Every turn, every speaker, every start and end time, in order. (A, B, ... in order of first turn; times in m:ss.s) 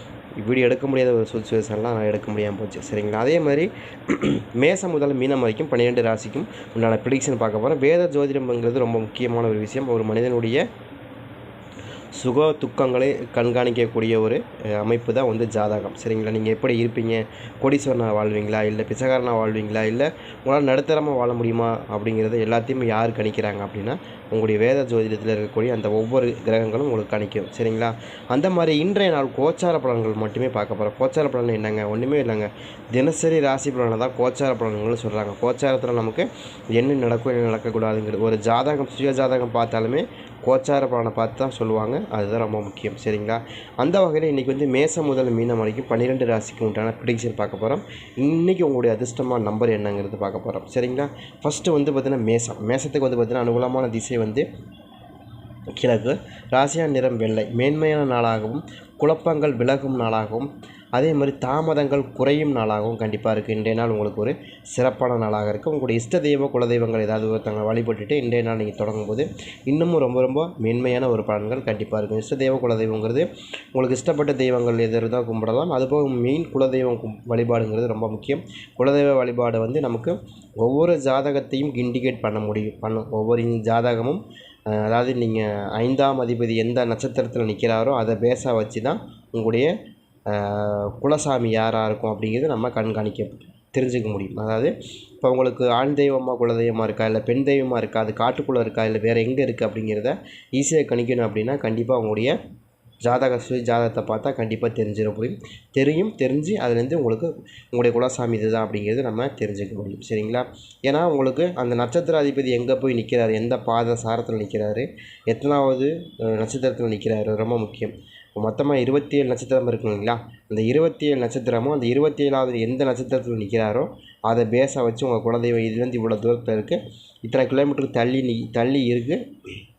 0:00.4-0:10.6 A
0:12.1-0:54.4 A
0:55.8-1:29.7 A
1:30.3-1:42.4 A
1:43.0-2:09.2 A